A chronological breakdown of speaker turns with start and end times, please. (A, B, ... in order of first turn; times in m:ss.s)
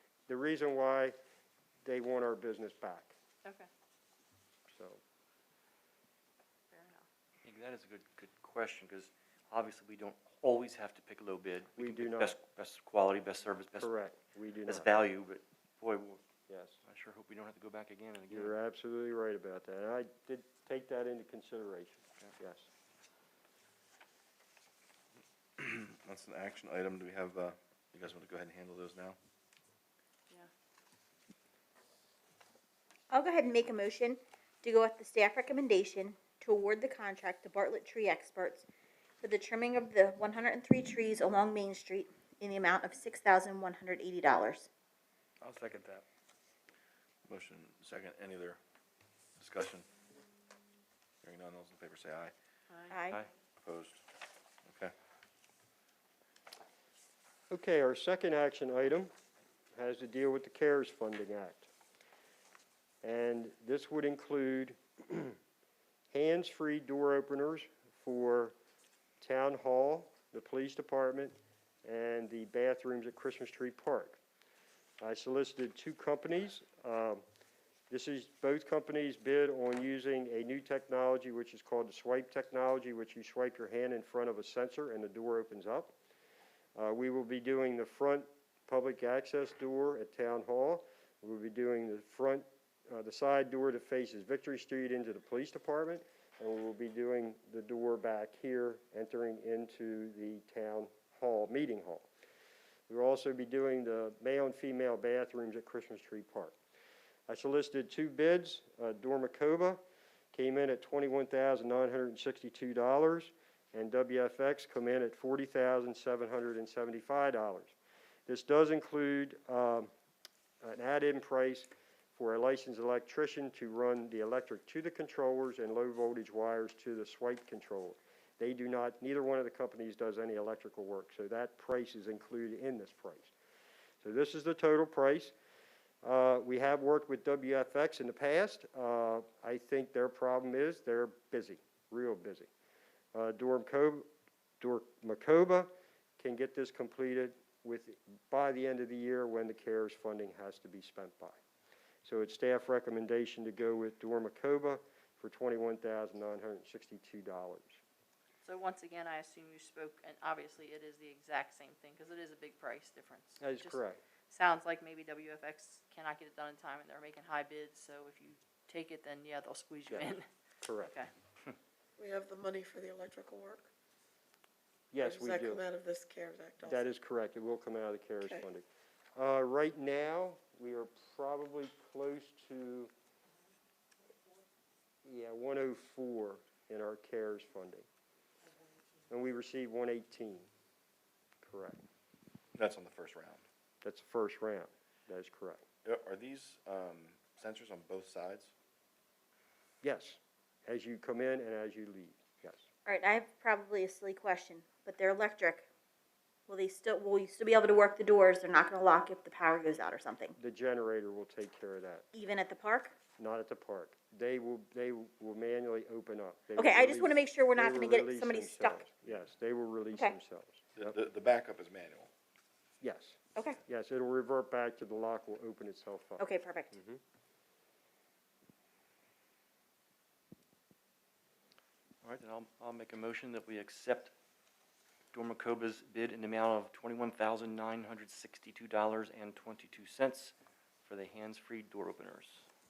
0:00.3-0:01.1 A
0:01.8-0:03.1 A
0:04.7-0:05.0 A
0:06.7-0:07.0 B
0:07.4-0:13.9 C
0:11.8-0:12.4 A
0:13.8-0:14.9 A
0:14.6-0:16.2 C
0:16.5-0:16.8 A
0:16.8-0:18.5 C
0:18.3-0:22.7 A
0:25.6-0:29.2 D
0:33.1-0:38.7 E
0:39.2-0:44.7 E
0:47.2-0:48.6 D
0:49.4-0:49.8 D
0:51.2-0:52.3 D
0:52.7-0:53.0 B
0:52.9-0:53.2 E
0:53.6-0:54.0 D
0:54.7-0:54.9 D
0:57.5-0:59.1 A
0:59.7-1:01.7 A
1:03.0-1:05.4 A
1:06.1-1:08.5 A
1:09.2-1:14.2 A
1:15.0-1:17.2 A
1:17.9-1:25.9 A
1:26.7-1:42.1 A
1:42.9-1:46.6 A
1:47.3-1:49.8 A
1:50.3-1:57.7 A
1:58.3-1:59.9 A
2:00.6-2:13.3 A
2:14.0-2:15.3 A
2:16.0-2:22.5 A
2:23.1-2:24.1 A
2:24.6-2:31.4 A
2:32.0-2:37.8 A
2:38.4-2:50.2 B
2:43.4-2:44.0 A
2:50.6-2:51.0 A
2:50.8-2:51.1 B
2:52.0-2:53.7 F
2:54.9-2:55.6 A
2:55.0-2:56.8 F
2:56.6-2:58.6 A
2:59.2-3:02.9 A
3:05.0-3:07.8 A
3:09.1-3:10.5 A
3:11.4-3:11.8 A
3:12.5-3:13.4 D
3:13.8-3:15.6 A
3:15.8-3:18.5 D
3:19.8-3:22.7 A
3:22.8-3:25.6 E
3:26.5-3:30.3 E
3:30.4-3:32.0 A
3:32.1-3:32.9 E
3:33.2-3:40.9 A
3:36.6-3:38.8 E
3:40.8-3:42.1 D
3:42.8-3:47.0 A
3:46.2-3:46.7 E
3:52.0-3:54.1 C
3:55.1-4:00.3 C
4:00.8-4:02.4 C